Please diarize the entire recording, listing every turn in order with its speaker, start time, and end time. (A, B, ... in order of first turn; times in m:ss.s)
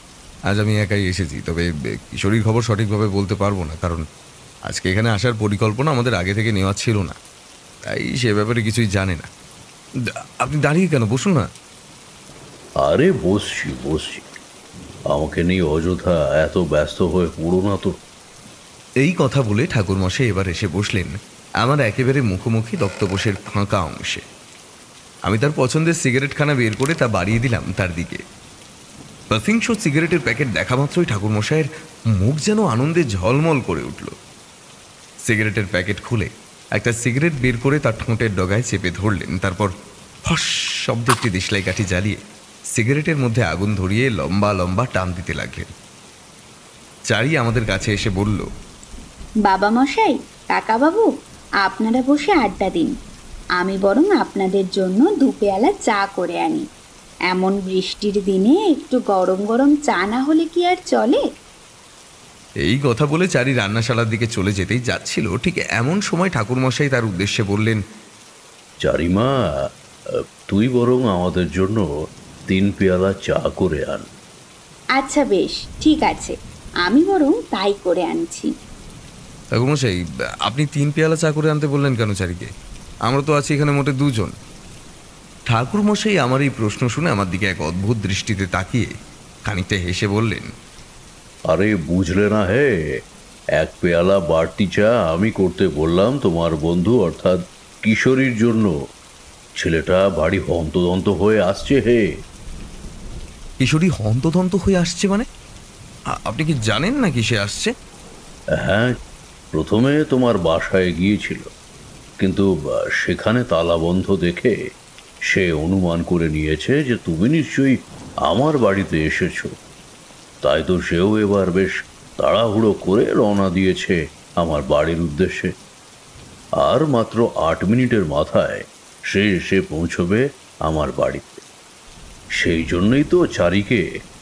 0:00.5-0:04.0 A
0:04.7-0:07.2 A
0:07.9-0:09.3 A
0:10.4-0:11.5 A
0:12.8-0:14.4 B
0:15.1-0:18.0 B
0:19.0-0:24.2 A
0:25.3-0:28.2 A
0:29.3-0:34.1 A
0:35.2-0:39.7 A
0:40.3-0:42.2 A
0:42.7-0:45.7 A
0:47.1-0:48.4 A
0:49.5-0:51.1 C
0:51.6-0:52.9 C
0:53.6-0:56.6 C
0:57.3-1:01.2 C
1:02.6-1:07.8 A
1:08.8-1:09.3 B
1:10.5-1:11.8 B
1:12.5-1:14.1 B
1:15.0-1:18.5 C
1:19.5-1:22.5 A
1:23.1-1:24.3 A
1:25.5-1:28.9 A
1:29.5-1:30.5 A
1:31.5-1:32.7 B
1:33.6-1:38.7 B
1:39.6-1:42.0 B
1:43.6-1:45.2 A
1:46.2-1:47.7 A
1:48.6-1:48.9 B
1:49.6-1:51.5 B
1:52.2-1:54.5 B
1:55.3-1:57.8 B
1:58.3-1:59.5 B
2:00.4-2:05.5 B
2:06.6-2:11.4 B
2:12.4-2:13.8 B